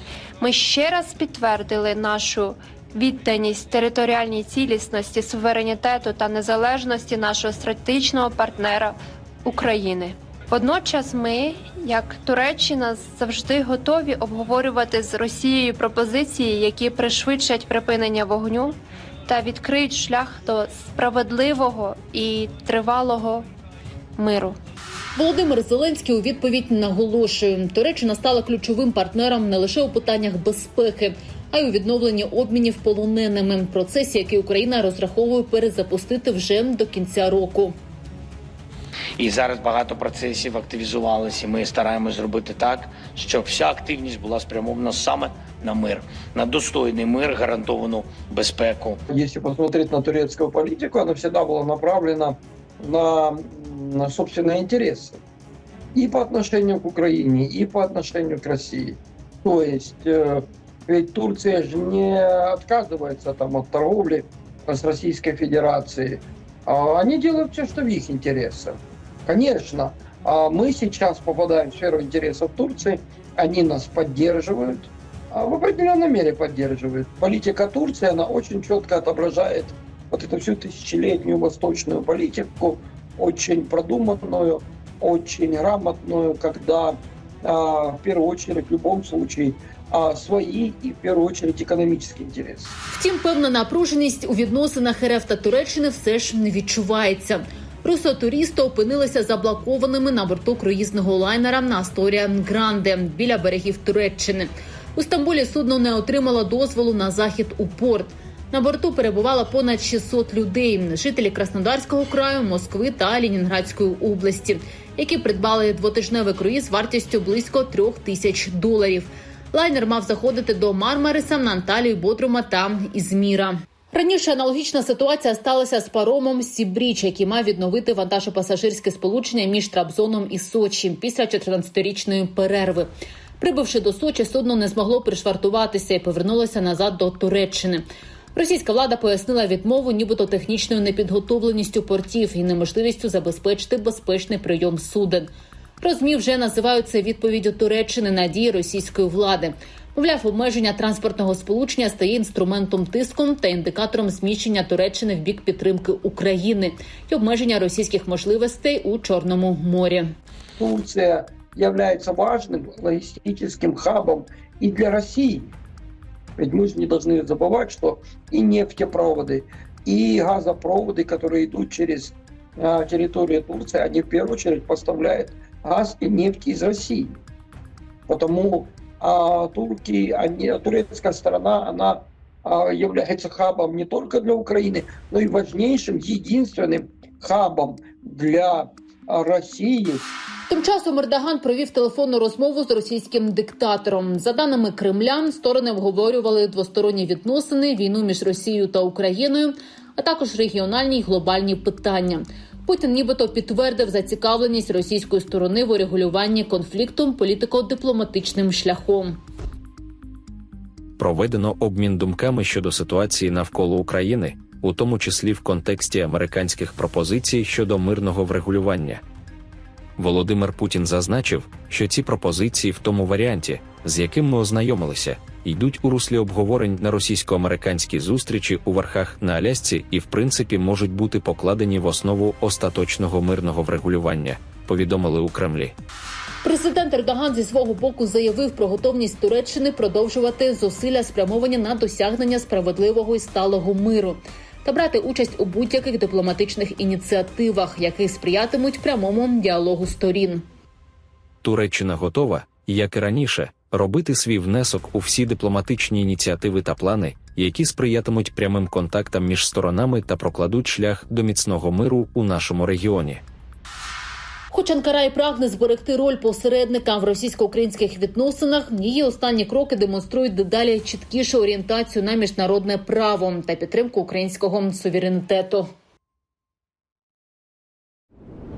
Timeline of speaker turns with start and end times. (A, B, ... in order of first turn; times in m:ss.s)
0:00.4-0:23.5 A
0:24.2-0:24.6 A
0:25.2-0:37.7 B
0:39.2-0:49.0 C
0:49.1-0:55.2 D
0:56.0-1:32.8 D
1:32.9-2:17.8 B
2:18.4-2:25.3 B
2:25.8-2:40.1 B
2:40.6-2:45.5 D
2:46.4-2:57.2 D
2:58.1-3:10.1 D
3:10.5-3:29.2 B
3:31.0-3:39.0 E
3:40.0-3:55.8 E
3:56.4-4:10.4 B
4:11.4-4:23.2 E
4:24.5-4:35.7 B